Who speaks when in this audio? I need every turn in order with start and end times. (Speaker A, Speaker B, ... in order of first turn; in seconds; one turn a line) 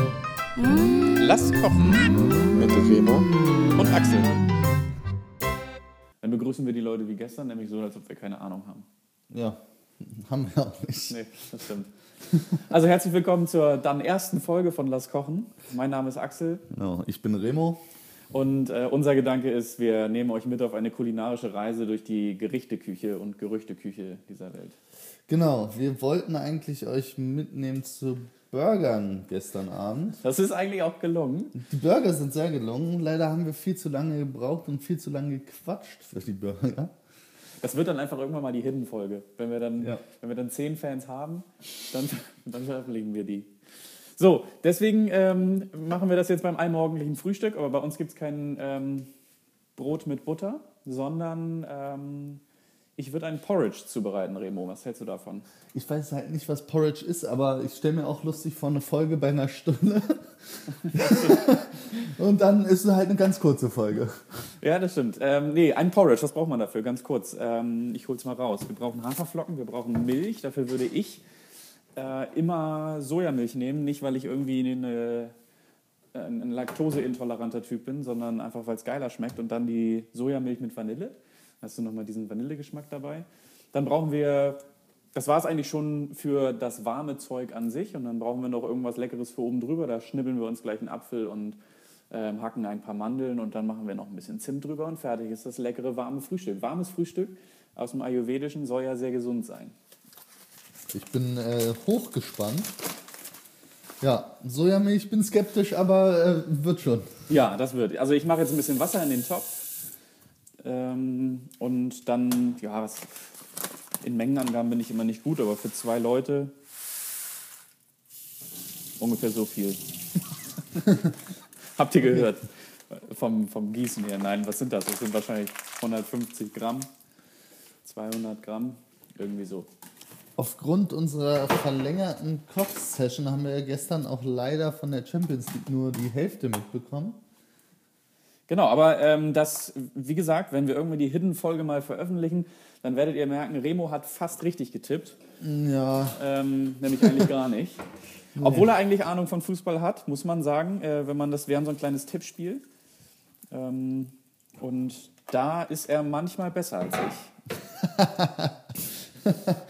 Speaker A: 1.1-4.4
Speaker A: 6.2-8.8
Speaker B: 9.3-11.2
Speaker A: 11.1-16.6
Speaker B: 16.7-17.8
Speaker A: 18.3-24.8
Speaker B: 25.3-30.2
Speaker A: 30.2-31.6
Speaker B: 31.5-36.9
Speaker A: 37.6-43.5
Speaker A: 44.2-49.1
Speaker A: 49.8-52.4
Speaker A: 53.0-55.4
Speaker B: 55.7-64.2
Speaker A: 64.6-71.2
Speaker A: 72.0-75.3
Speaker A: 76.1-84.6
Speaker A: 85.1-91.6
Speaker A: 92.1-99.7
Speaker B: 100.9-102.8
Speaker B: 104.0-107.1
Speaker A: 107.3-109.6
Speaker A: 110.6-113.3
Speaker A: 114.0-116.5
Speaker A: 119.0-119.8
Speaker A: 121.8-126.9
Speaker A: 127.8-129.7
Speaker B: 130.4-137.2
Speaker A: 138.5-145.2
Speaker B: 145.4-146.2
Speaker A: 146.1-147.8
Speaker B: 148.3-148.7
Speaker A: 148.4-152.6
Speaker A: 153.5-157.3
Speaker B: 157.8-158.5
Speaker B: 159.2-159.6